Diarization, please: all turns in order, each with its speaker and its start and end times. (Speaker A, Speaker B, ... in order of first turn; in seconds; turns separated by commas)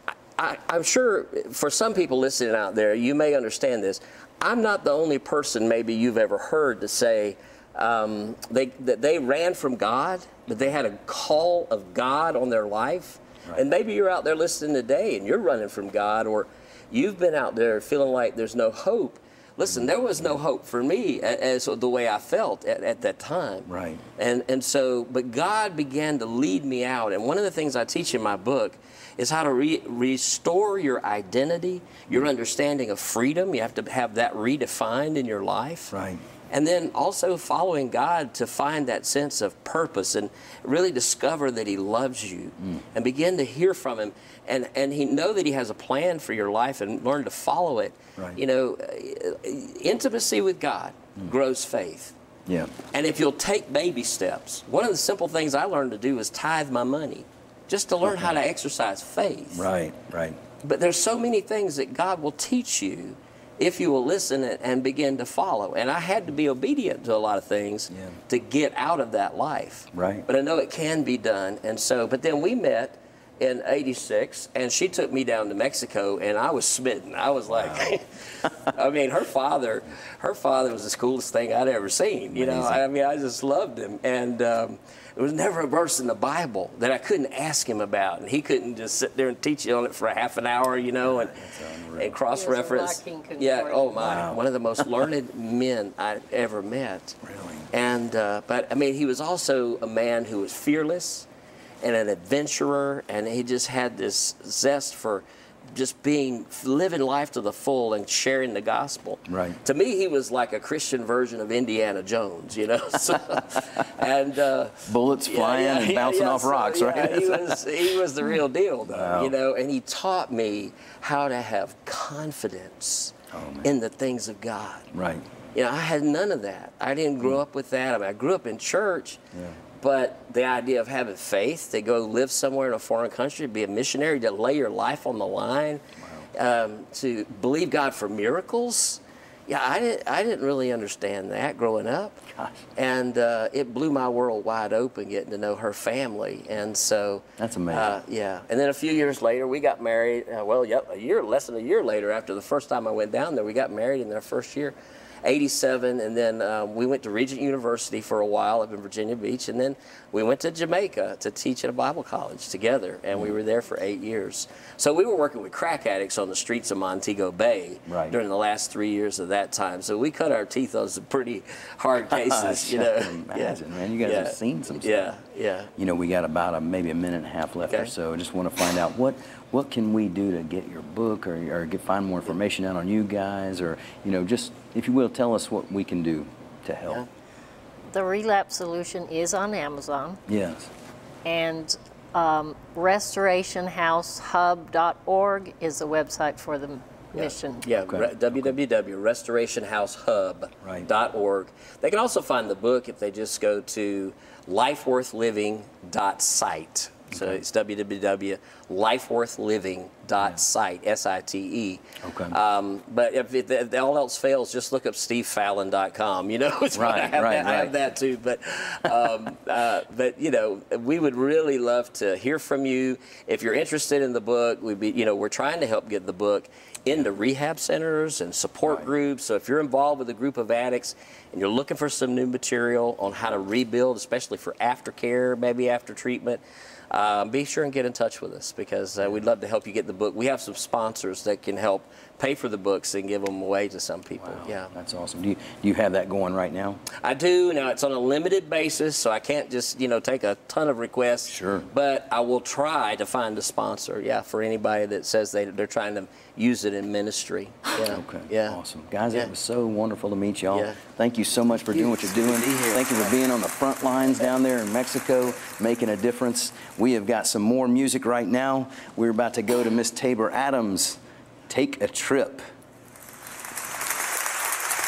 Speaker A: 0.3-35.9, Speaker B: 19.7-20.4, Speaker B: 23.7-24.0, Speaker B: 35.9-36.2, Speaker A: 36.5-52.1, Speaker B: 52.5-52.7, Speaker A: 52.9-59.7, Speaker B: 58.1-58.4, Speaker B: 59.5-60.4, Speaker A: 60.6-97.2, Speaker B: 67.9-68.2, Speaker B: 69.9-70.3, Speaker B: 77.5-77.9, Speaker B: 82.3-82.8, Speaker B: 91.0-92.1, Speaker C: 92.3-94.2, Speaker B: 94.0-94.9, Speaker B: 97.2-97.7, Speaker A: 97.7-101.3, Speaker A: 101.8-124.9, Speaker B: 109.3-109.6, Speaker B: 113.2-113.8, Speaker B: 114.9-117.8, Speaker B: 118.9-119.3, Speaker B: 123.3-123.7, Speaker B: 124.9-125.3, Speaker A: 125.5-129.2, Speaker B: 129.3-129.6, Speaker A: 129.8-175.7, Speaker B: 136.0-136.3, Speaker B: 147.4-148.0, Speaker B: 167.9-168.2, Speaker B: 172.1-175.1, Speaker B: 175.8-187.1, Speaker A: 177.7-177.9, Speaker C: 187.9-190.2, Speaker B: 190.3-190.7, Speaker C: 191.2-197.7, Speaker A: 197.1-244.7, Speaker B: 197.9-198.1, Speaker B: 200.6-200.9, Speaker B: 207.1-207.4, Speaker B: 212.0-212.4, Speaker B: 216.7-217.7, Speaker B: 244.2-246.8, Speaker A: 246.9-258.6, Speaker B: 251.3-251.7, Speaker B: 257.7-272.4, Speaker A: 260.5-260.8, Speaker A: 261.5-263.1